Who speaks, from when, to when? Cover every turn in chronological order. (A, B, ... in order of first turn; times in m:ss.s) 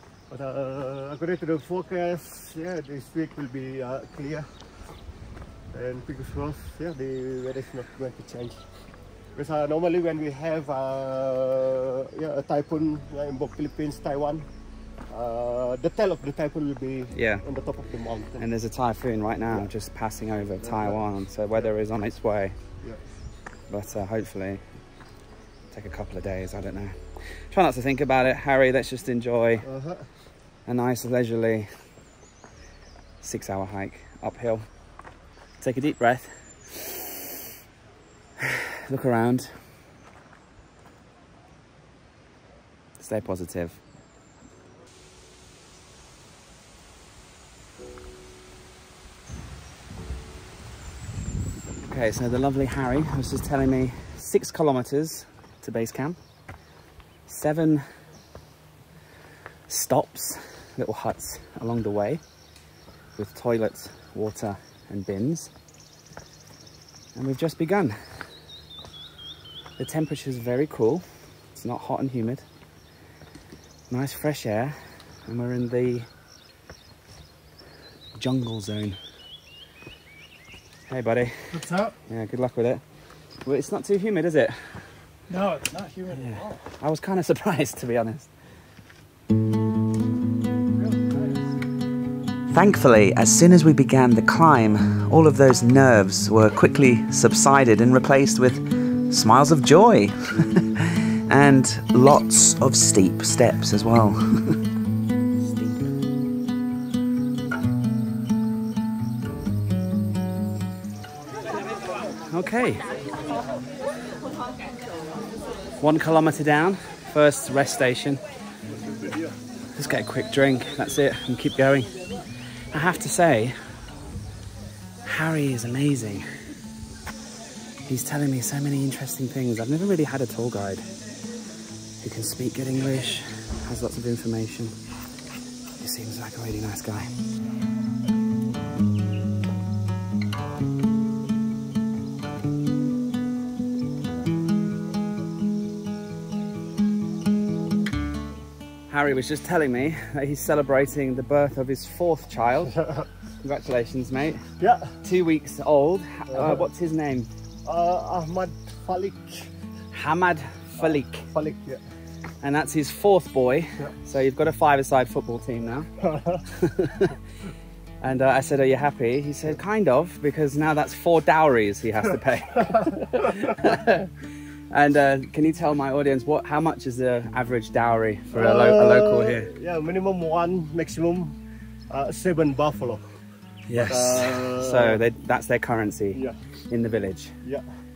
0:00.3-0:04.6 A
0:05.7-0:08.7 A
0:09.4-0:14.5 A
0:15.1-0:18.5 A
0:17.1-0:17.4 B
0:18.4-0:22.6 B
0:20.6-0:21.0 A
0:23.7-0:24.6 B
0:25.7-0:29.7 B
0:29.6-0:30.1 A
0:30.7-0:31.7 B
0:33.2-0:34.7 B
0:35.6-0:37.2 B
0:38.4-0:39.6 B
0:43.0-0:43.8 B
0:51.8-0:56.2 B
0:57.3-0:57.8 B
0:59.7-1:02.2 B
1:03.2-1:05.5 B
1:07.2-1:08.0 B
1:09.8-1:12.4 B
1:13.9-1:16.1 B
1:18.2-1:19.0 B
1:20.9-1:22.8 B
1:21.5-1:21.9 C
1:23.4-1:24.7 B
1:25.3-1:26.6 C
1:26.1-1:28.3 B
1:30.8-1:31.5 C
1:32.5-1:44.6 B
1:45.4-1:45.9 B
1:52.3-1:52.9 B
1:55.8-1:58.2 B
1:58.7-1:59.4 A
1:59.8-2:03.6 B
2:05.1-2:06.3 B
2:07.9-2:10.9 B
2:12.0-2:14.8 B
2:15.8-2:17.1 B
2:28.9-2:32.8 B
2:33.4-2:34.4 B
2:34.6-2:35.0 A
2:35.0-2:37.3 B
2:36.3-2:36.7 A
2:37.6-2:39.5 A
2:39.9-2:41.3 B
2:40.8-2:41.8 A
2:42.4-2:45.9 B
2:46.0-2:46.4 A
2:46.5-2:47.2 B
2:48.0-2:54.1 B
2:52.7-2:53.6 A
2:54.7-2:59.5 B
2:58.3-3:03.1 A
3:03.7-3:07.3 B
3:03.8-3:05.0 A